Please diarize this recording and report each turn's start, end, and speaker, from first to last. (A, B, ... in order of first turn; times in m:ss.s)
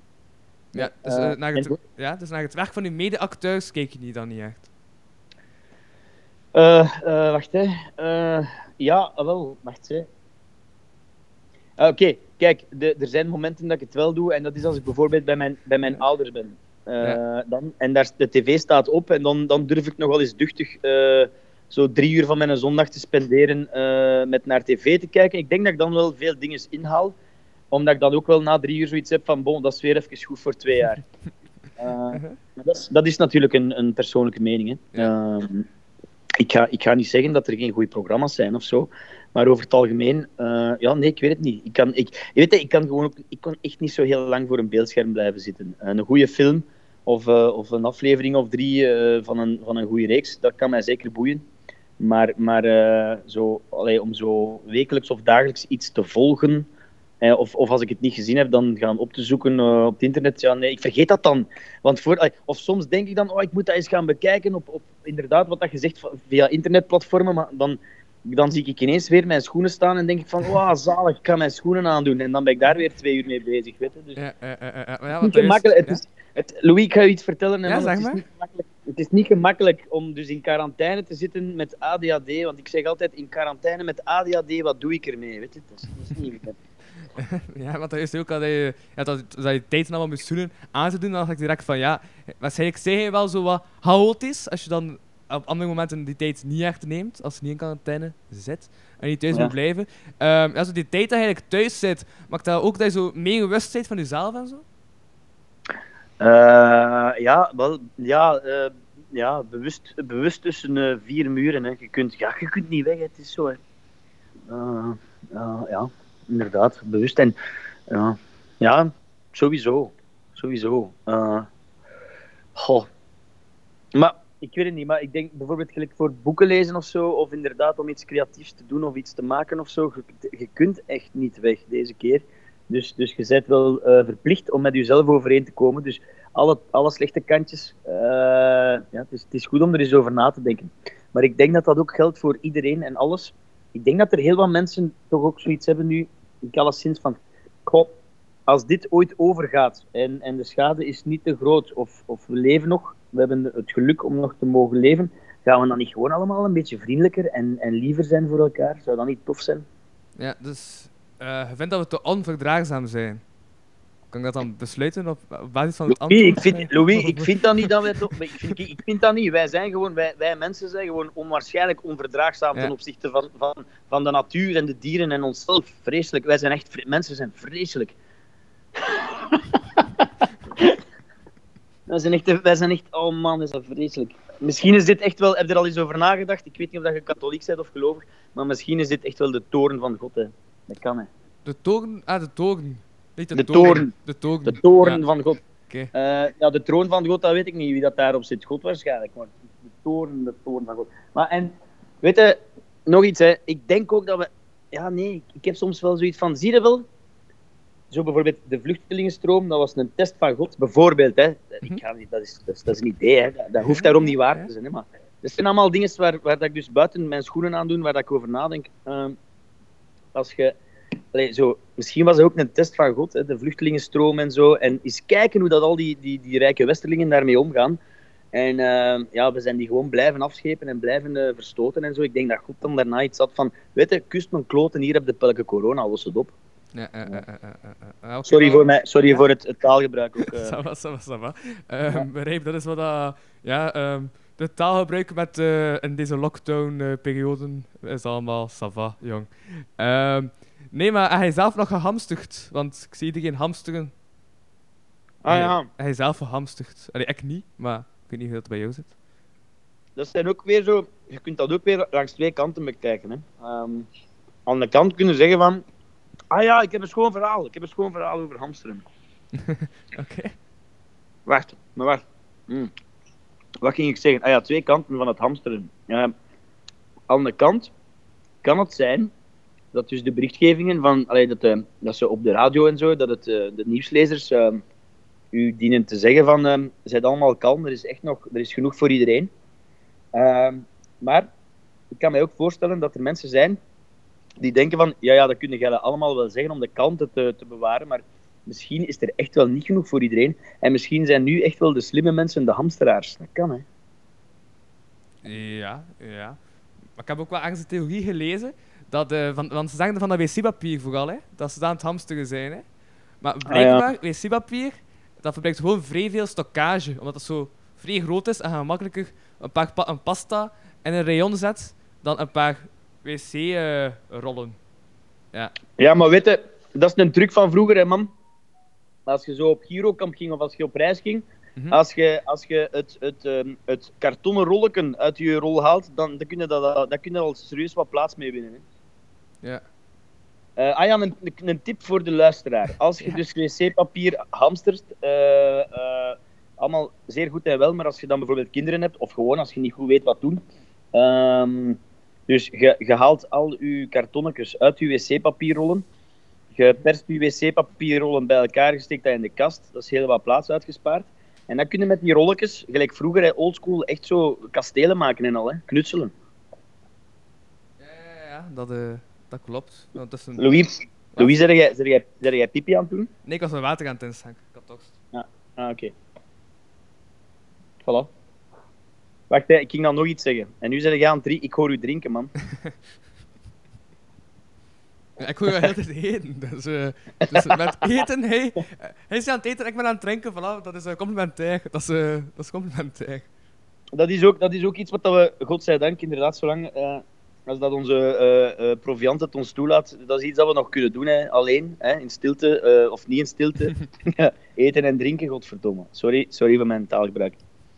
0:00.7-0:04.7 A
0:00.7-0:01.8 B
0:06.5-0:10.1 B
0:11.8-0:27.1 B
0:27.7-0:31.0 B
0:31.8-0:35.6 B
0:32.1-0:32.4 A
0:36.4-0:51.4 B
0:52.0-0:56.7 B
0:57.2-1:14.2 B
1:14.2-1:16.0 A
1:15.2-1:26.6 B
1:17.6-1:18.2 A
1:27.2-1:44.6 A
1:46.2-1:53.6 B
1:54.5-1:57.4 B
1:57.9-2:01.5 B
2:02.6-2:02.9 B
2:03.9-2:27.9 B
2:28.5-2:39.6 B
2:40.2-2:43.2 A
2:44.1-2:48.5 A
2:45.9-2:57.9 B
2:58.8-3:00.0 B
3:01.9-3:11.1 B
3:11.4-3:15.0 A
3:13.3-3:13.9 B
3:14.4-3:15.4 B
3:15.9-3:26.8 B
3:27.9-3:39.2 B
3:33.6-3:34.5 A
3:40.1-3:40.6 B
3:41.1-3:47.8 B
3:48.3-3:56.3 B
3:56.7-3:59.2 A
3:58.2-4:00.6 B
4:00.2-4:13.9 A
4:15.2-4:15.7 B
4:15.3-4:18.9 A
4:20.0-4:23.9 B
4:24.4-4:25.6 B
4:26.3-4:28.8 B
4:29.3-4:30.3 A
4:31.2-4:32.7 B
4:33.6-4:36.1 B
4:37.1-4:37.7 B
4:38.4-4:39.1 B
4:39.7-4:44.6 B
4:45.3-4:49.3 B
4:50.1-4:51.3 B
4:51.9-4:53.6 B
4:54.4-5:03.6 B
5:05.2-5:06.4 A
5:07.0-5:12.6 A
5:13.2-5:24.6 A
5:13.5-5:13.8 B
5:25.8-5:28.1 B
5:29.0-5:38.6 B
5:40.6-5:50.4 B
5:50.9-5:55.8 B
5:56.5-6:06.1 B
6:07.8-6:10.6 A
6:10.4-6:13.1 B
6:13.2-6:15.0 A
6:15.1-6:15.9 B
6:17.8-6:18.1 B
6:19.3-6:22.3 B
6:25.2-6:33.3 A
6:33.9-6:47.4 B